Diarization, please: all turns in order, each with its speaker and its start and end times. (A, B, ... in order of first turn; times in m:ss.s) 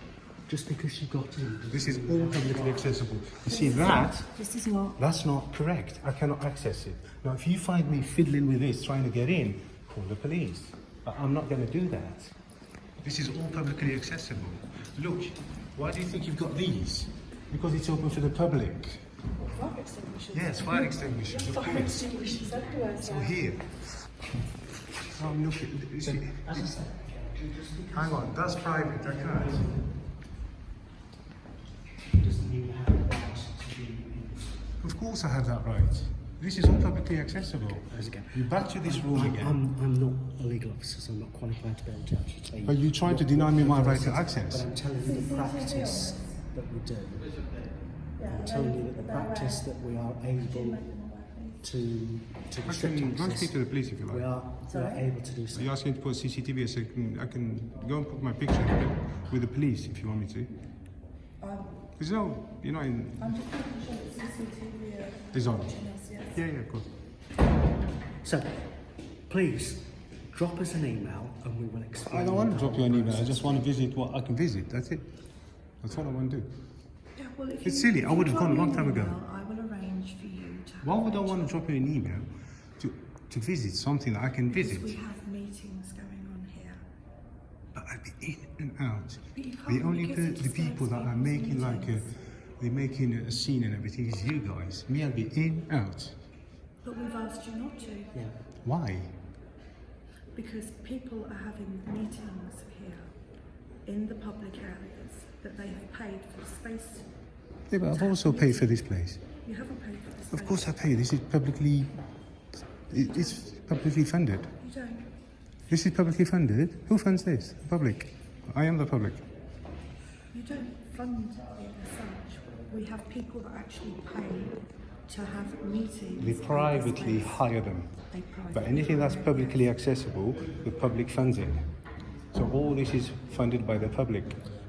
0:00.5-0:03.0 A
0:01.7-0:04.3 B
0:03.5-0:05.0 C
0:05.0-0:12.4 B
0:13.0-0:19.1 B
0:19.4-0:23.4 C
0:20.3-0:22.2 B
0:22.3-0:22.8 A
0:23.0-0:23.8 B
0:25.1-0:26.7 B
0:26.0-0:30.0 A
0:27.9-0:29.7 B
0:32.1-0:34.7 A
0:34.8-0:39.6 B
0:37.8-0:47.5 A
0:42.6-0:44.7 B
0:45.0-0:46.4 C
0:48.2-0:49.7 C
0:48.2-0:50.8 A
0:50.4-0:51.6 C
0:51.6-0:55.7 A
0:52.7-0:54.3 B
0:54.7-0:55.1 C
0:55.5-1:00.5 B
1:01.4-1:01.8 C
1:02.0-1:03.3 B
1:03.2-1:06.4 C
1:05.3-1:05.8 B
1:06.3-1:06.9 B
1:08.2-1:08.7 A
1:09.3-1:13.7 A
1:12.1-1:15.1 B
1:15.8-1:16.5 B
1:17.2-1:21.6 C
1:17.6-1:19.2 B
1:20.8-1:25.0 B
1:24.5-1:26.8 C
1:27.7-1:36.2 B
1:29.3-1:32.1 C
1:36.8-1:38.1 C
1:38.6-1:39.2 B
1:40.3-1:43.1 C
1:43.8-1:47.1 C
1:47.7-1:49.2 B
1:47.9-1:48.9 C
1:49.4-1:50.7 C
1:50.3-1:52.0 B
1:52.9-1:54.5 B
1:52.9-1:53.6 C
1:54.6-1:55.1 C
1:55.7-1:59.2 B
2:00.3-2:07.4 C
2:06.2-2:11.7 B
2:08.1-2:09.6 C
2:12.3-2:14.4 B